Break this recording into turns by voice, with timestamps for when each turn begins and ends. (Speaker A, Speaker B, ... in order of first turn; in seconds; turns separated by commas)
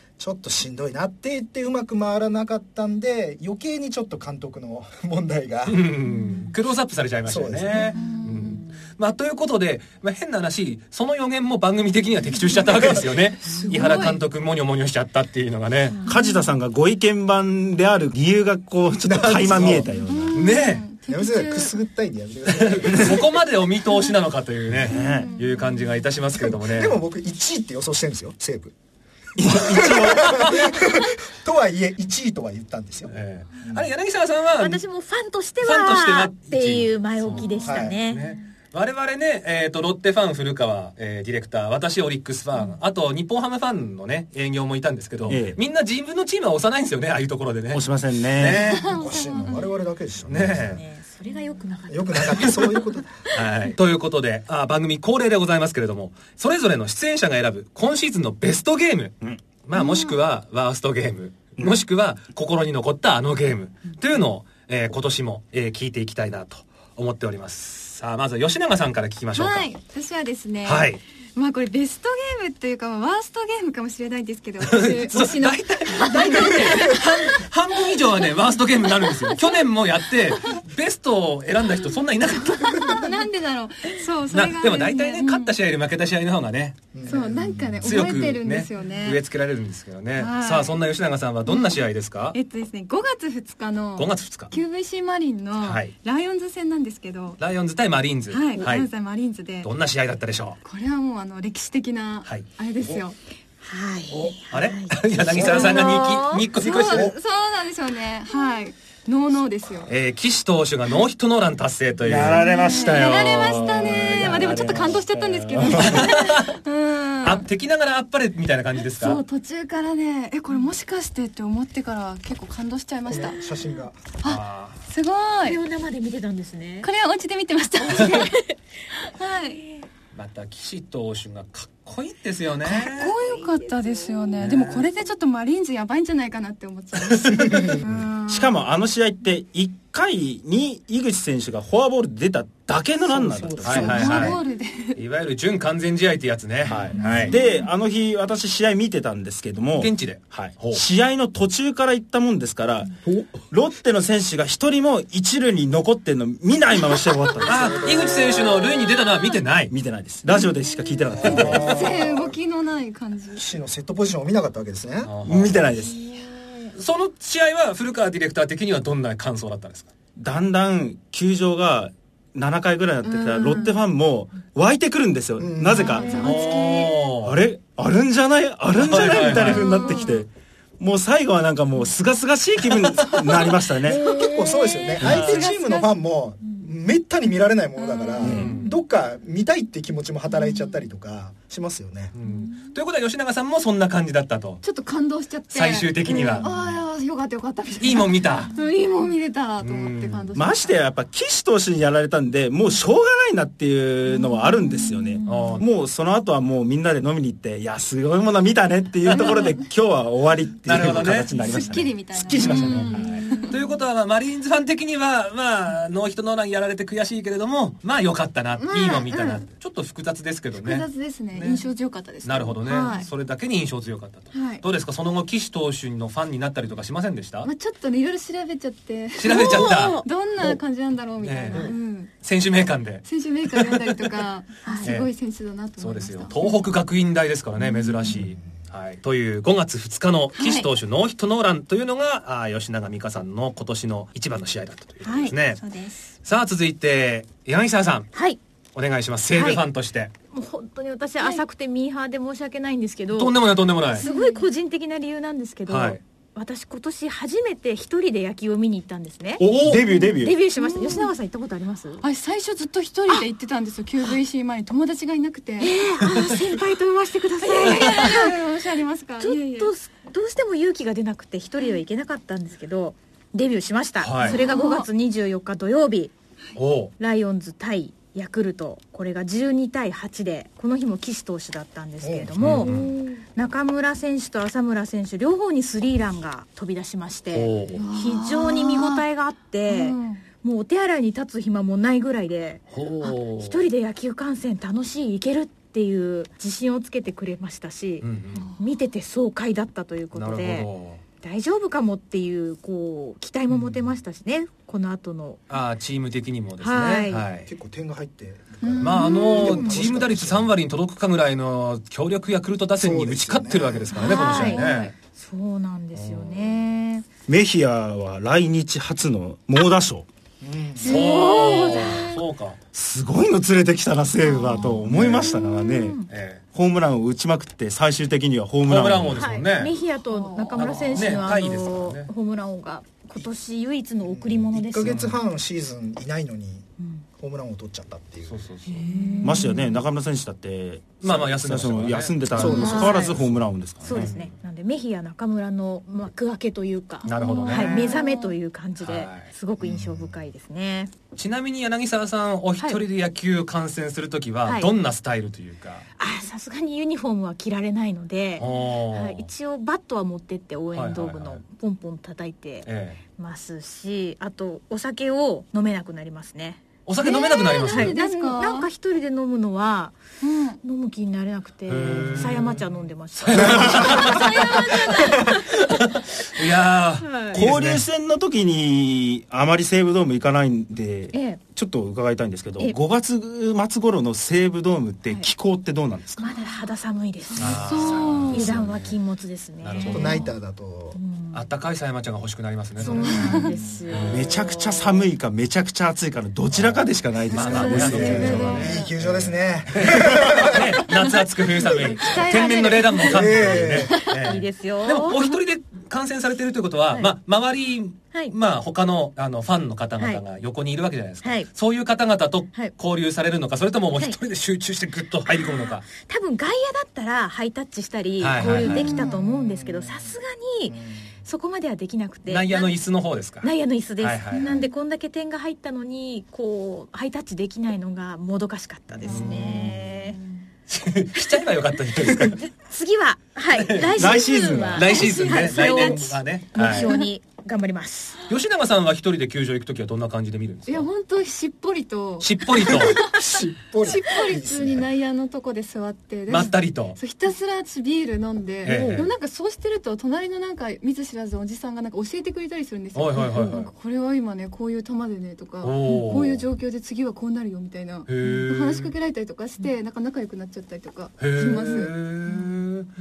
Speaker A: 0.2-5.9, Speaker B: 5.7-16.0, Speaker C: 6.1-6.5, Speaker A: 7.2-8.0, Speaker C: 7.9-8.6, Speaker C: 13.5-14.2, Speaker D: 13.5-14.1, Speaker E: 16.0-20.4, Speaker A: 19.0-19.9, Speaker B: 19.6-19.8, Speaker C: 20.0-21.8, Speaker B: 20.3-20.8, Speaker A: 21.1-23.3, Speaker B: 22.5-27.0, Speaker E: 24.7-25.3, Speaker C: 24.9-25.8, Speaker A: 26.3-28.7, Speaker E: 29.4-30.5, Speaker A: 29.4-33.9, Speaker B: 29.8-30.7, Speaker B: 33.1-34.8, Speaker D: 34.6-38.2, Speaker B: 35.6-49.0, Speaker A: 37.4-38.0, Speaker E: 45.3-45.6, Speaker E: 47.7-48.7, Speaker C: 48.6-49.8, Speaker A: 48.9-50.8, Speaker B: 50.2-50.8, Speaker D: 50.7-52.8, Speaker A: 51.9-53.2, Speaker B: 52.2-52.7, Speaker B: 53.3-69.7, Speaker C: 59.7-60.1, Speaker C: 69.3-78.4, Speaker B: 70.6-71.0, Speaker B: 74.6-83.1, Speaker C: 78.9-79.6, Speaker C: 80.3-80.6, Speaker C: 82.6-85.5, Speaker B: 84.3-86.8, Speaker A: 86.9-87.9, Speaker C: 87.0-89.2, Speaker B: 87.8-92.4, Speaker C: 90.2-90.8, Speaker C: 91.5-97.4, Speaker B: 94.0-94.5, Speaker B: 95.6-95.9, Speaker B: 97.4-98.9, Speaker C: 98.3-99.7, Speaker B: 99.6-100.6, Speaker C: 100.6-103.2, Speaker D: 103.6-106.5, Speaker B: 104.5-107.1, Speaker A: 105.3-106.0, Speaker C: 105.4-109.9, Speaker A: 106.8-107.1, Speaker B: 109.8-114.6, Speaker E: 112.0-116.1, Speaker C: 112.4-117.4, Speaker B: 115.7-116.6, Speaker B: 117.2-119.2, Speaker C: 118.9-123.5, Speaker A: 123.1-124.1, Speaker C: 124.2-125.6, Speaker B: 124.2-124.8, Speaker D: 125.4-126.9, Speaker C: 126.8-128.4, Speaker D: 128.1-128.4, Speaker C: 129.0-129.6, Speaker B: 130.1-133.2, Speaker C: 132.6-138.5, Speaker D: 133.4-134.2, Speaker B: 134.4-134.8, Speaker B: 137.0-137.8, Speaker E: 138.1-144.4, Speaker A: 143.1-144.4, Speaker B: 143.6-144.4, Speaker C: 143.7-145.0, Speaker B: 144.9-147.3, Speaker E: 146.7-157.9, Speaker A: 146.7-147.3, Speaker C: 147.0-147.4, Speaker B: 149.8-150.8, Speaker B: 157.4-159.7, Speaker A: 157.5-158.4, Speaker E: 159.7-162.0, Speaker A: 161.2-162.3, Speaker B: 161.2-161.7, Speaker C: 161.4-163.4, Speaker A: 163.3-165.1, Speaker B: 165.0-165.7, Speaker E: 165.2-166.0, Speaker D: 166.0-166.7, Speaker B: 166.7-169.9, Speaker E: 170.2-176.2, Speaker C: 173.0-173.8, Speaker A: 175.4-176.3, Speaker C: 175.7-177.1, Speaker D: 175.9-176.2, Speaker B: 176.2-177.4, Speaker E: 177.2-180.3, Speaker B: 178.8-179.7, Speaker C: 179.2-180.2, Speaker D: 179.7-180.0, Speaker E: 180.8-184.0, Speaker D: 183.9-184.9, Speaker C: 183.9-185.9, Speaker A: 184.0-192.1, Speaker B: 185.0-185.5, Speaker C: 187.8-188.6, Speaker E: 188.2-188.5, Speaker B: 188.3-188.7, Speaker B: 192.1-194.6, Speaker C: 194.6-200.8, Speaker B: 195.5-196.6, Speaker B: 197.8-198.5, Speaker B: 199.6-200.3, Speaker E: 200.3-213.2, Speaker B: 205.3-205.7, Speaker C: 209.1-209.6, Speaker B: 210.6-211.4, Speaker C: 210.8-213.7, Speaker B: 212.4-221.6, Speaker C: 218.6-219.4, Speaker C: 220.6-223.1, Speaker B: 222.2-227.5, Speaker C: 224.3-224.6, Speaker C: 227.4-232.1, Speaker B: 229.2-230.0, Speaker D: 229.3-230.1, Speaker B: 231.2-234.1, Speaker C: 233.0-236.6, Speaker D: 234.6-234.9, Speaker B: 234.8-235.1, Speaker B: 235.8-245.6, Speaker C: 240.3-240.7, Speaker C: 245.0-246.1, Speaker B: 246.2-248.1, Speaker B: 248.7-250.1, Speaker D: 249.3-249.6, Speaker D: 250.3-253.4, Speaker B: 253.1-254.1, Speaker D: 253.9-262.0, Speaker C: 253.9-254.5, Speaker B: 255.7-256.0, Speaker B: 259.4-259.8, Speaker E: 259.4-260.4, Speaker C: 260.6-261.1, Speaker C: 262.0-265.8, Speaker D: 265.6-268.4, Speaker C: 267.4-269.7, Speaker B: 267.7-268.1, Speaker D: 269.2-276.1, Speaker B: 274.0-274.4, Speaker C: 274.2-274.9, Speaker B: 276.6-276.9, Speaker D: 277.0-300.7, Speaker A: 282.0-282.8, Speaker B: 282.4-282.9, Speaker B: 287.3-287.8, Speaker C: 287.7-289.0, Speaker C: 289.7-290.2, Speaker B: 292.7-293.6, Speaker B: 298.0-298.5, Speaker B: 300.1-301.0, Speaker D: 301.2-305.4, Speaker B: 305.5-307.5, Speaker D: 306.6-307.2, Speaker A: 307.5-310.5, Speaker C: 308.6-309.6, Speaker B: 308.8-314.9, Speaker D: 309.3-309.8, Speaker A: 312.8-314.1, Speaker D: 313.9-317.1, Speaker C: 314.0-314.9, Speaker B: 315.9-316.6, Speaker E: 317.3-320.1, Speaker A: 320.4-321.0, Speaker D: 320.8-322.2, Speaker C: 320.8-322.2, Speaker B: 320.8-322.6, Speaker E: 322.7-326.0, Speaker D: 324.3-326.1, Speaker C: 324.4-324.8, Speaker B: 324.9-325.2, Speaker B: 326.1-326.4, Speaker E: 326.5-329.3, Speaker B: 328.6-329.7, Speaker D: 329.1-335.1, Speaker C: 330.1-330.8, Speaker B: 330.5-332.1, Speaker A: 334.0-336.7, Speaker B: 334.8-335.1, Speaker A: 337.2-338.4, Speaker B: 338.3-338.9, Speaker C: 338.8-339.6, Speaker D: 338.8-339.8, Speaker E: 339.2-344.1, Speaker B: 341.0-344.3, Speaker D: 342.3-343.2, Speaker A: 342.4-343.2, Speaker C: 342.5-342.9, Speaker D: 343.8-350.9, Speaker C: 347.0-348.3, Speaker B: 347.0-347.9, Speaker B: 348.8-349.3, Speaker A: 349.6-350.2, Speaker B: 351.1-355.8, Speaker D: 356.0-370.0, Speaker B: 358.4-359.3, Speaker B: 360.7-361.4, Speaker B: 362.6-363.0, Speaker B: 366.9-367.9, Speaker C: 367.0-368.7, Speaker C: 370.2-370.6, Speaker D: 370.6-375.7, Speaker B: 371.7-377.8, Speaker C: 373.8-375.3, Speaker D: 377.0-377.4, Speaker E: 377.3-386.3, Speaker D: 381.1-381.4, Speaker D: 386.2-390.3, Speaker B: 387.4-388.9, Speaker C: 387.5-388.6, Speaker B: 389.6-390.3, Speaker A: 389.8-391.0, Speaker D: 390.9-391.4, Speaker B: 391.3-394.3, Speaker D: 392.8-395.0, Speaker C: 392.9-393.6, Speaker A: 393.4-393.7, Speaker E: 394.1-398.6, Speaker B: 396.5-415.8, Speaker D: 397.3-398.8, Speaker C: 397.5-398.9, Speaker A: 397.7-400.8, Speaker C: 401.0-404.2, Speaker A: 403.0-404.0, Speaker D: 404.0-405.4, Speaker D: 411.2-411.5, Speaker D: 415.2-422.7, Speaker B: 418.2-419.1, Speaker A: 418.4-420.1, Speaker C: 418.8-419.1, Speaker A: 420.7-421.1, Speaker B: 422.3-424.6, Speaker D: 423.4-430.2, Speaker B: 428.9-429.8, Speaker B: 430.7-432.5, Speaker D: 432.0-438.2, Speaker B: 433.5-434.1, Speaker E: 433.9-435.1, Speaker B: 434.7-436.9, Speaker C: 435.3-436.0, Speaker C: 436.7-437.0, Speaker B: 438.3-440.9, Speaker C: 440.7-461.9, Speaker B: 442.2-443.0, Speaker A: 443.0-444.9, Speaker B: 446.3-447.0, Speaker B: 448.6-449.1, Speaker D: 448.7-448.9, Speaker B: 452.9-453.7, Speaker D: 453.2-453.6, Speaker B: 455.6-456.4, Speaker B: 458.1-458.9, Speaker B: 461.2-462.9